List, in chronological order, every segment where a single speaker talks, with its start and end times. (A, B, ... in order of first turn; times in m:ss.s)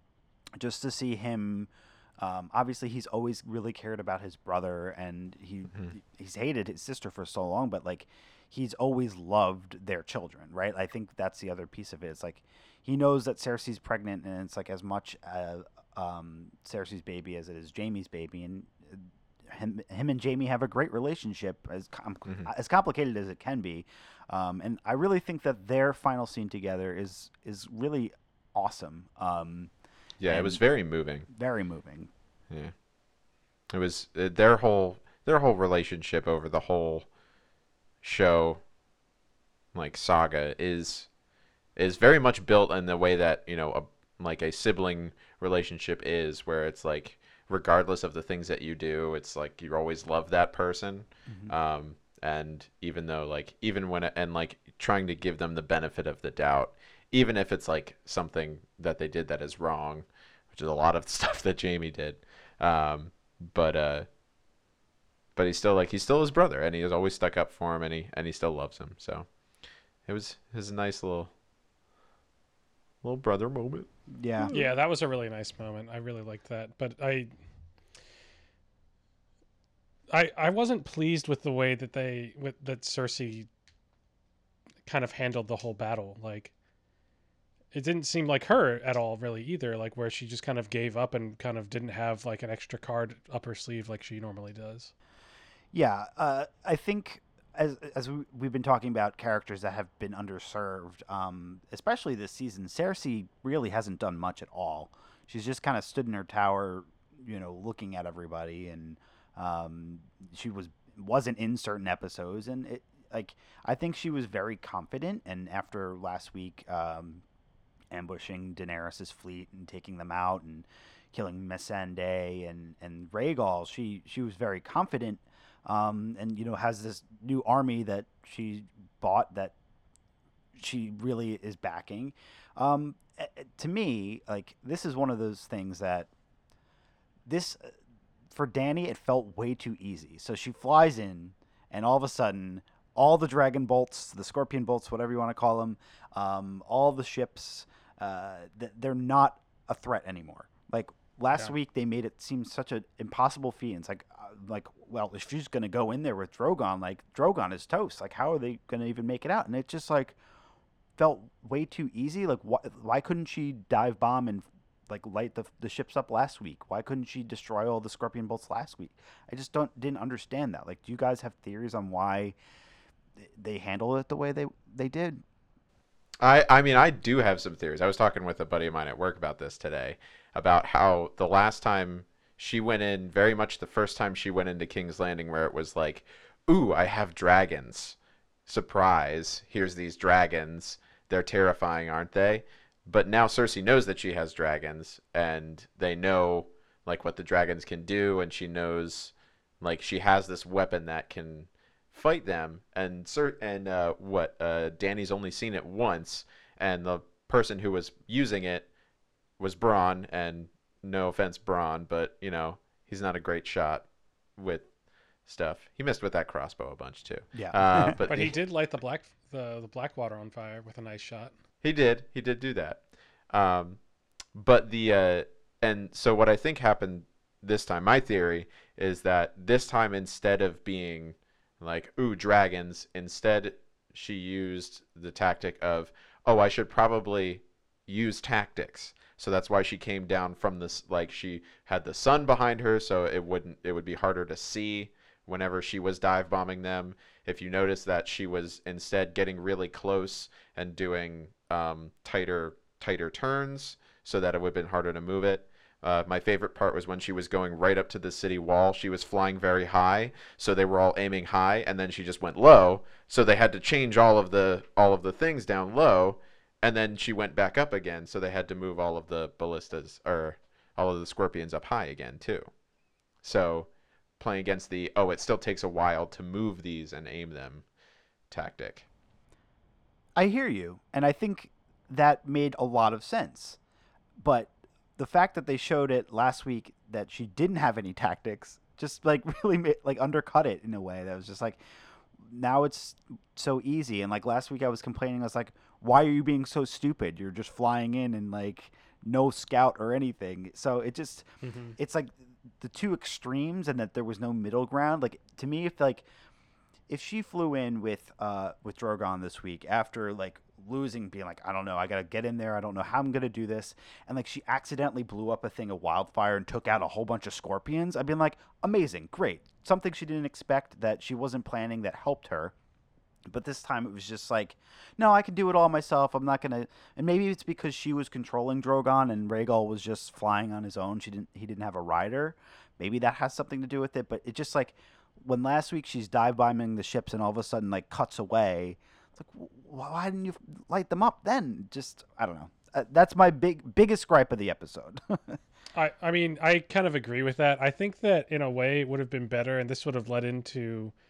0:00.6-0:29.7 A
0:30.2-0:31.3 B
0:30.2-0:30.6 A
0:31.3-0:32.1 A
0:33.7-0:37.1 B
0:38.0-0:38.6 B
0:39.7-0:41.1 B
0:41.8-1:04.1 B
0:51.3-0:51.5 A
1:05.4-1:09.3 B
1:10.1-1:11.3 B
1:13.0-1:14.7 B
1:14.1-1:14.5 A
1:14.5-1:17.3 C
1:20.1-1:23.5 C
1:24.8-1:26.5 C
1:27.7-1:34.9 C
1:35.7-1:57.2 A
1:57.9-2:09.6 A
2:10.6-2:16.1 A
2:17.3-2:17.8 A
2:18.3-2:40.2 A
2:41.0-2:52.4 A
2:53.2-2:55.2 A
2:56.2-3:08.0 B
3:08.5-3:28.7 B
3:29.4-3:34.7 B
3:35.2-3:38.3 B
3:37.4-3:38.0 A
3:38.1-3:41.3 C
3:41.6-3:43.8 B
3:44.3-4:32.6 B
4:33.2-4:37.7 B
4:38.3-4:38.9 B
4:40.2-4:43.6 A
4:44.2-4:51.6 A
4:52.2-5:06.0 A
5:01.4-5:01.8 C
5:06.9-5:22.5 A
5:23.3-5:45.4 A
5:45.7-5:50.9 C